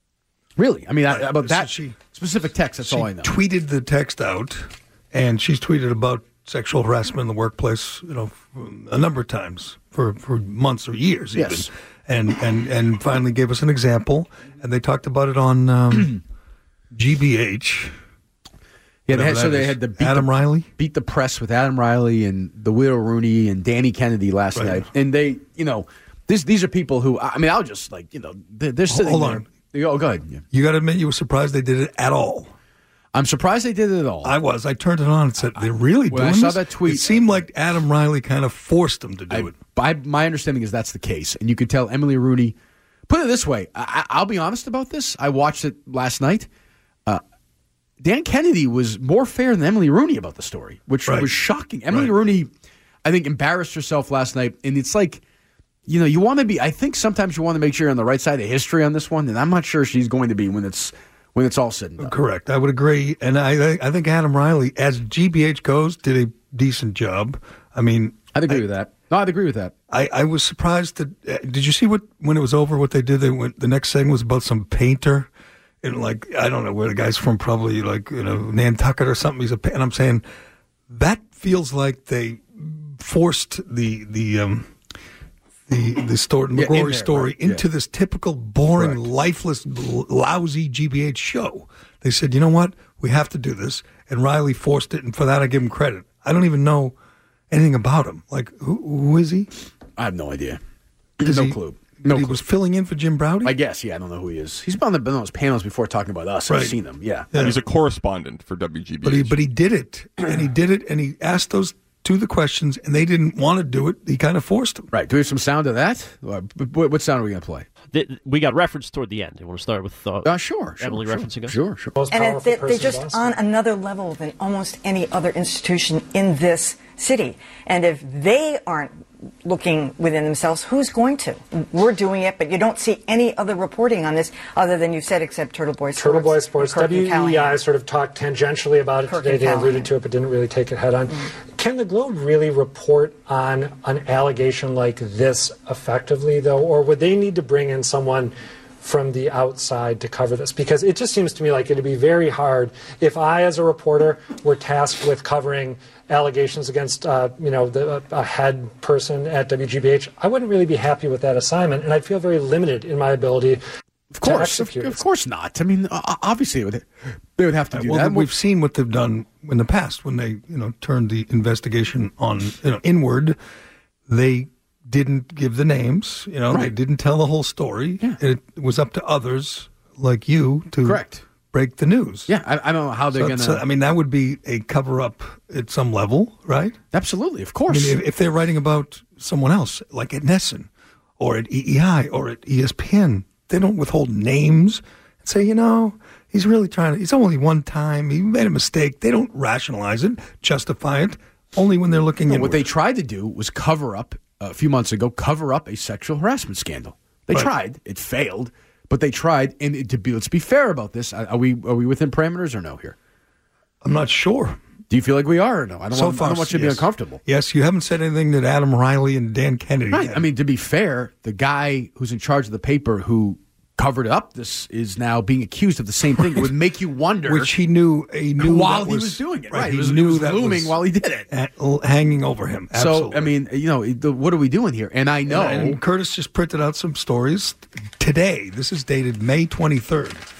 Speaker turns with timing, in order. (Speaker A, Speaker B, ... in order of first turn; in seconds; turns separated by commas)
Speaker A: 0.6-3.4, Speaker B: 1.1-2.0, Speaker B: 2.8-16.2, Speaker A: 11.3-11.7, Speaker B: 16.9-17.9, Speaker A: 19.1-30.4, Speaker B: 19.1-20.7, Speaker B: 24.5-24.9, Speaker B: 28.9-29.5, Speaker B: 30.5-32.5, Speaker A: 33.1-34.3, Speaker B: 34.2-39.6, Speaker A: 35.5-37.4, Speaker A: 39.3-42.5, Speaker A: 43.1-46.5, Speaker A: 48.0-52.5, Speaker B: 51.0-51.3, Speaker A: 53.0-55.2, Speaker A: 55.9-62.1, Speaker B: 62.0-68.6, Speaker A: 68.3-69.7, Speaker B: 69.9-75.3, Speaker B: 75.8-80.2, Speaker B: 80.9-84.7, Speaker B: 85.7-96.9, Speaker A: 86.5-87.6, Speaker A: 88.8-89.0, Speaker B: 97.5-99.5, Speaker A: 100.0-100.6, Speaker A: 101.2-102.4, Speaker B: 101.2-103.5, Speaker A: 103.4-107.3, Speaker B: 106.5-106.8, Speaker B: 107.3-107.6, Speaker C: 107.3-109.4, Speaker B: 109.0-114.9, Speaker A: 114.9-117.7, Speaker D: 117.9-121.6, Speaker A: 120.2-121.9, Speaker E: 122.0-123.3, Speaker F: 122.1-137.6, Speaker E: 135.9-163.6, Speaker F: 139.0-139.9, Speaker A: 164.1-168.3, Speaker E: 164.2-165.0, Speaker B: 167.7-173.4, Speaker B: 174.1-182.3, Speaker A: 180.8-181.2, Speaker A: 182.3-183.6, Speaker B: 183.1-186.8, Speaker A: 186.9-188.0, Speaker B: 187.7-202.7, Speaker A: 202.3-212.9, Speaker B: 213.8-214.6, Speaker A: 214.9-217.2, Speaker B: 215.9-220.2, Speaker A: 219.9-227.5, Speaker B: 226.2-226.5, Speaker B: 227.2-230.7, Speaker A: 228.4-231.3, Speaker B: 231.3-233.3, Speaker A: 232.7-235.8, Speaker B: 235.3-240.2